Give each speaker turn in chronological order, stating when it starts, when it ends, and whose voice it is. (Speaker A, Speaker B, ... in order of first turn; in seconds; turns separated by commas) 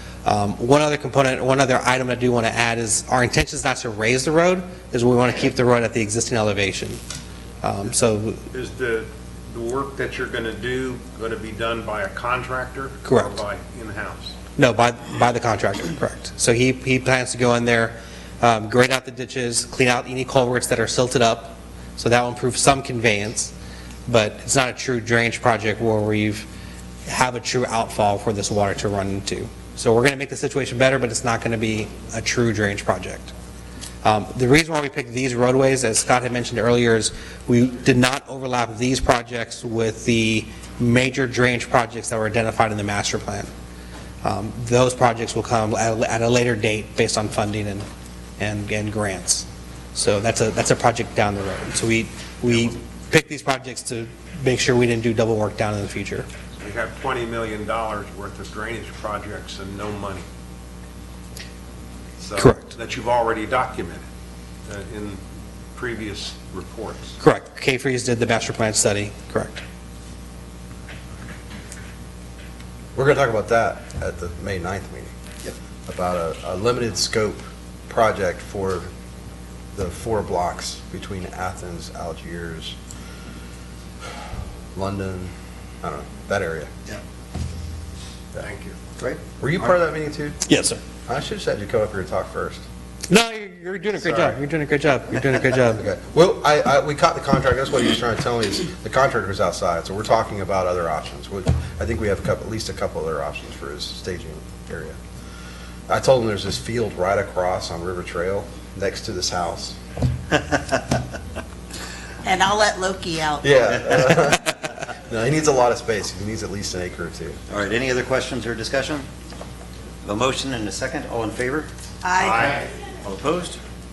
Speaker A: 0.2-7.0, Speaker A: 7.6-8.4, Speaker B: 8.5-14.3, Speaker A: 13.0-13.4, Speaker A: 14.6-23.5, Speaker A: 24.1-26.5, Speaker A: 27.1-33.3, Speaker A: 34.0-43.5, Speaker A: 44.2-47.9, Speaker A: 48.4-56.3, Speaker B: 56.6-60.2, Speaker B: 62.2-64.0, Speaker A: 62.4-62.7, Speaker B: 64.7-65.2, Speaker B: 65.7-67.2, Speaker A: 67.2-69.6, Speaker C: 72.9-75.1, Speaker C: 75.9-78.9, Speaker C: 79.7-82.8, Speaker C: 84.7-86.7, Speaker B: 88.4-88.8, Speaker D: 89.0-89.7, Speaker C: 89.4-90.4, Speaker A: 90.5-90.8, Speaker C: 91.1-92.6, Speaker A: 93.1-95.8, Speaker C: 94.0-94.3, Speaker C: 95.7-105.0, Speaker C: 105.9-109.8, Speaker D: 110.3-110.7, Speaker E: 112.2-113.7, Speaker C: 113.4-117.4, Speaker D: 117.5-119.1, Speaker D: 120.0-121.7, Speaker E: 122.0-122.6, Speaker B: 122.2-122.6, Speaker D: 122.5-123.6